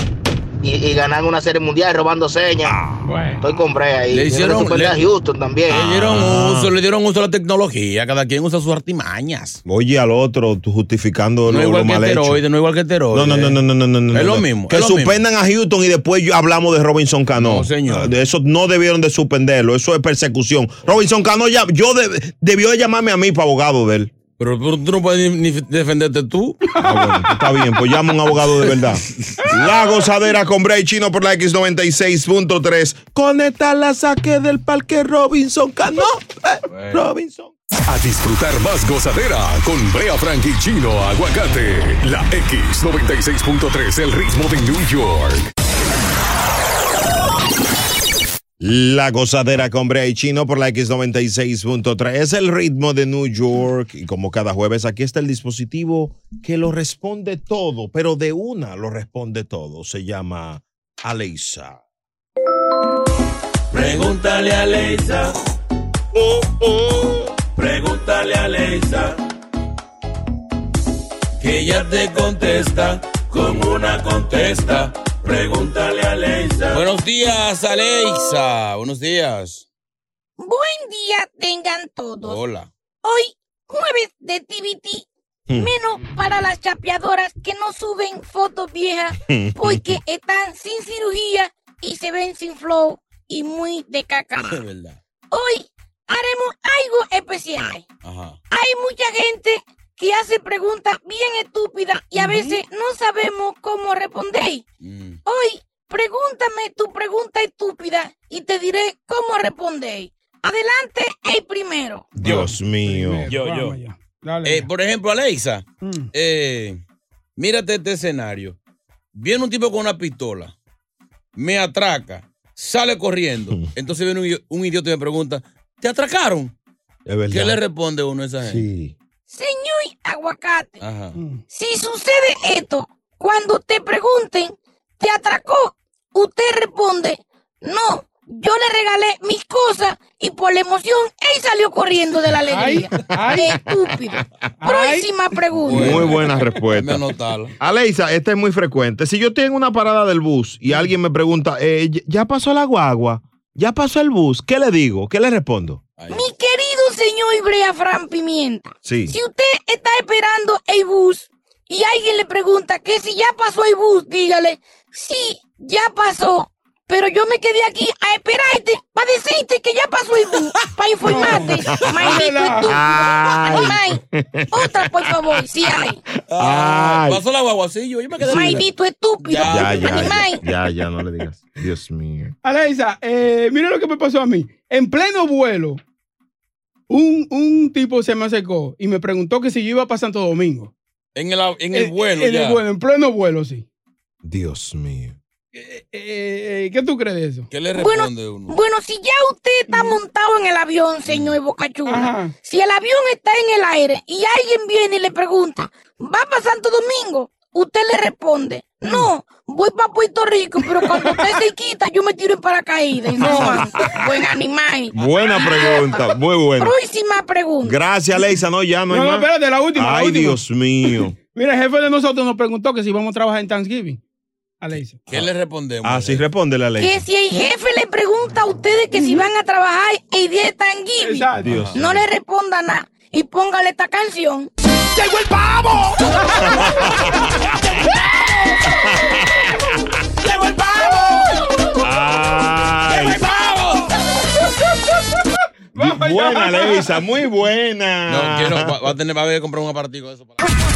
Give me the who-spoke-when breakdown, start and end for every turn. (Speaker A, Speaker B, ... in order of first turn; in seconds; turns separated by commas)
Speaker A: 0.6-2.8, Speaker B: 2.7-3.1, Speaker C: 3.0-3.5, Speaker A: 3.4-5.9, Speaker D: 4.1-5.1, Speaker D: 5.7-9.6, Speaker B: 5.7-6.7, Speaker B: 9.7-12.4, Speaker D: 11.5-13.6, Speaker B: 13.1-24.1, Speaker D: 14.1-15.2, Speaker D: 17.4-18.1, Speaker D: 24.4-26.6, Speaker B: 26.8-37.5, Speaker D: 36.7-37.1, Speaker E: 37.9-45.5, Speaker B: 48.6-61.8, Speaker D: 63.7-65.3, Speaker D: 67.6-69.2, Speaker D: 71.4-76.0, Speaker F: 73.5-74.3, Speaker F: 75.3-76.8, Speaker D: 76.6-79.7, Speaker G: 80.4-82.4, Speaker D: 82.2-82.7, Speaker G: 83.0-94.6, Speaker B: 89.2-90.0, Speaker D: 94.5-95.0, Speaker G: 95.3-97.8, Speaker D: 98.0-98.4, Speaker G: 98.5-104.6, Speaker C: 102.2-102.6, Speaker D: 104.8-105.2, Speaker G: 105.2-112.2, Speaker B: 112.2-113.3, Speaker C: 112.2-114.7, Speaker D: 113.3-113.8, Speaker D: 114.4-116.8, Speaker C: 115.8-116.1, Speaker D: 117.4-118.6, Speaker D: 119.2-120.5, Speaker D: 121.4-126.5, Speaker B: 127.1-127.6, Speaker D: 127.3-128.7, Speaker B: 128.4-128.9, Speaker G: 129.3-130.8, Speaker D: 130.8-131.2, Speaker C: 131.2-131.4, Speaker G: 131.5-146.1, Speaker C: 142.5-143.6, Speaker C: 144.6-145.1, Speaker B: 145.6-147.1, Speaker D: 145.6-147.6, Speaker B: 147.6-155.8, Speaker D: 156.0-156.3, Speaker G: 156.1-176.0, Speaker B: 158.8-159.1, Speaker C: 171.1-173.3, Speaker B: 171.1-175.4, Speaker D: 176.3-178.7, Speaker B: 176.3-177.2, Speaker G: 178.2-180.4, Speaker D: 179.2-180.3, Speaker B: 179.4-182.3, Speaker C: 182.4-185.8, Speaker C: 186.9-190.7, Speaker D: 191.2-192.6, Speaker C: 191.7-193.7, Speaker B: 194.2-195.2, Speaker C: 195.6-197.5, Speaker D: 197.5-198.5, Speaker G: 197.8-217.8, Speaker C: 199.7-200.0, Speaker D: 201.1-201.3, Speaker C: 201.9-202.3, Speaker C: 213.2-213.7, Speaker B: 214.9-216.7, Speaker B: 217.6-221.2, Speaker C: 218.9-220.4, Speaker C: 221.3-224.0, Speaker C: 224.6-225.0, Speaker D: 225.1-226.3, Speaker B: 225.8-227.0, Speaker G: 226.8-234.5, Speaker C: 228.9-229.2, Speaker C: 231.0-231.5, Speaker B: 231.4-232.1, Speaker D: 231.4-231.8, Speaker C: 235.1-237.1, Speaker B: 236.4-237.8, Speaker B: 238.8-239.7, Speaker B: 241.8-243.2, Speaker C: 245.7-247.0, Speaker B: 245.8-248.8, Speaker D: 248.1-250.4